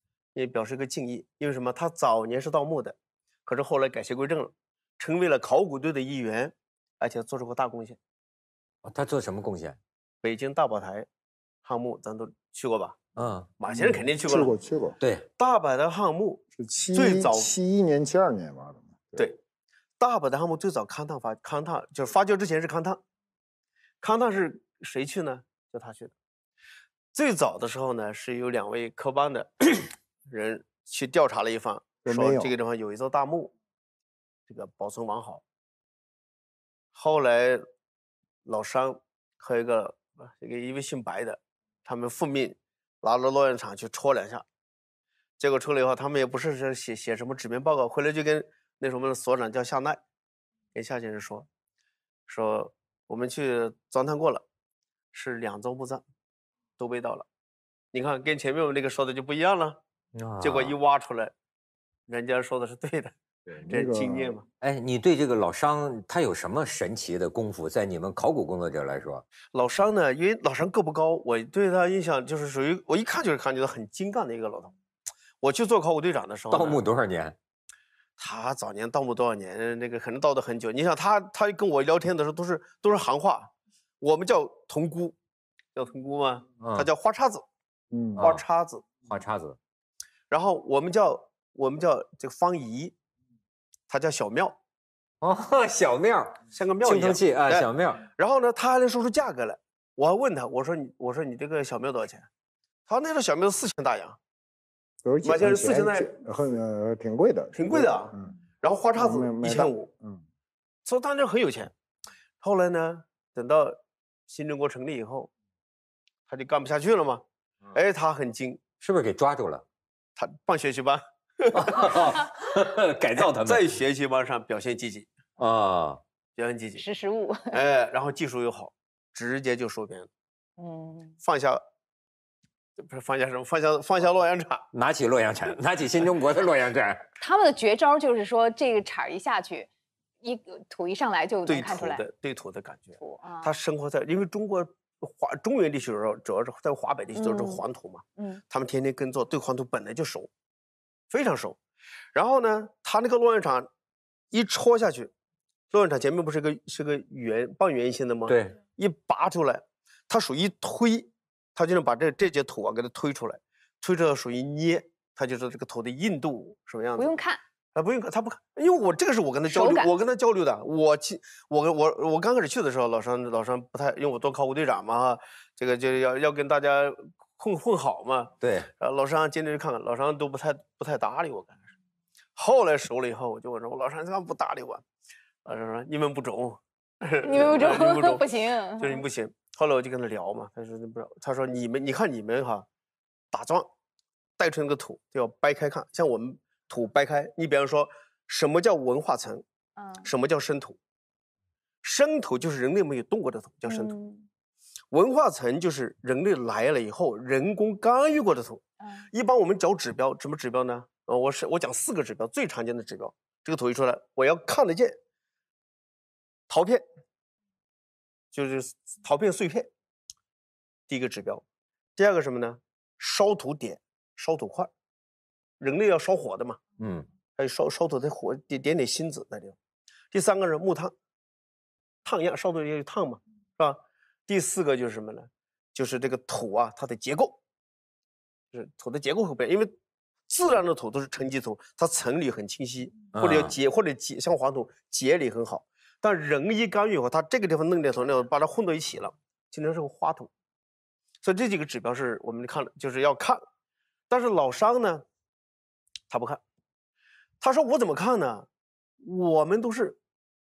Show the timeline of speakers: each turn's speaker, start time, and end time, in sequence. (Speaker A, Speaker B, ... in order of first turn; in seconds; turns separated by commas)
Speaker A: 0.3-2.9, Speaker A: 3.5-8.0, Speaker B: 8.8-9.8, Speaker A: 10.2-11.1, Speaker A: 11.6-12.9, Speaker B: 13.2-13.5, Speaker A: 13.6-14.5, Speaker C: 13.7-14.9, Speaker B: 15.0-15.2, Speaker A: 15.4-17.5, Speaker C: 16.6-19.3, Speaker A: 20.0-23.0, Speaker A: 24.0-26.1, Speaker A: 27.1-33.5, Speaker C: 32.0-32.5, Speaker A: 34.5-35.4, Speaker A: 36.9-37.6, Speaker A: 38.5-44.4, Speaker A: 45.4-50.0, Speaker A: 50.7-51.5, Speaker A: 52.3-54.4, Speaker A: 55.1-56.0, Speaker A: 56.8-57.2, Speaker A: 57.9-59.8, Speaker B: 60.1-60.8, Speaker A: 60.4-61.3, Speaker A: 62.1-64.4, Speaker C: 63.6-64.3, Speaker B: 64.6-69.2, Speaker A: 69.5-74.7, Speaker A: 75.4-76.8, Speaker B: 76.5-77.3, Speaker A: 78.2-85.1, Speaker A: 85.7-87.4, Speaker B: 86.6-86.9, Speaker C: 87.9-88.2, Speaker B: 88.2-88.4, Speaker A: 88.2-88.8, Speaker B: 89.1-89.6, Speaker A: 90.3-92.9, Speaker A: 93.9-94.5, Speaker B: 95.2-98.0, Speaker A: 96.5-102.2, Speaker A: 102.9-104.2, Speaker C: 105.0-108.3, Speaker A: 105.2-106.2, Speaker A: 107.5-109.9, Speaker C: 109.0-110.2, Speaker A: 110.8-111.7, Speaker A: 112.4-113.8, Speaker A: 114.3-115.3, Speaker A: 116.3-118.6, Speaker B: 118.8-119.6, Speaker A: 120.2-122.2, Speaker B: 121.5-123.7, Speaker A: 123.2-125.1, Speaker B: 125.4-126.0, Speaker A: 126.4-126.8, Speaker D: 126.8-127.6, Speaker A: 127.5-130.1, Speaker D: 130.6-131.2, Speaker A: 131.2-131.6, Speaker A: 132.8-134.7, Speaker B: 134.7-137.1, Speaker D: 137.2-139.7, Speaker D: 140.2-142.0, Speaker A: 141.5-150.3, Speaker D: 143.0-143.5, Speaker D: 147.1-147.6, Speaker D: 148.2-148.4, Speaker A: 151.1-151.6, Speaker A: 152.1-153.7, Speaker A: 154.3-155.1, Speaker A: 155.7-167.1, Speaker B: 158.3-158.6, Speaker D: 166.9-167.4, Speaker A: 167.7-181.6, Speaker D: 169.4-169.9, Speaker B: 178.4-178.7, Speaker A: 182.4-184.8, Speaker A: 185.4-188.3, Speaker D: 187.2-189.0, Speaker A: 188.8-192.7, Speaker A: 193.3-193.7, Speaker A: 194.4-199.4, Speaker D: 199.8-200.1, Speaker A: 200.0-200.8, Speaker A: 201.8-203.9, Speaker D: 203.7-204.3, Speaker A: 204.9-215.0, Speaker A: 216.5-216.8, Speaker A: 218.3-219.7, Speaker A: 220.9-221.4, Speaker A: 221.9-224.7, Speaker A: 225.6-226.6, Speaker B: 226.8-227.1, Speaker A: 227.4-229.6, Speaker A: 230.1-230.9, Speaker A: 232.0-237.4, Speaker A: 238.5-239.7, Speaker A: 240.3-250.3, Speaker B: 243.1-243.5, Speaker A: 251.2-253.4, Speaker A: 254.1-255.0, Speaker A: 256.1-256.4, Speaker A: 257.4-258.4, Speaker A: 259.0-260.0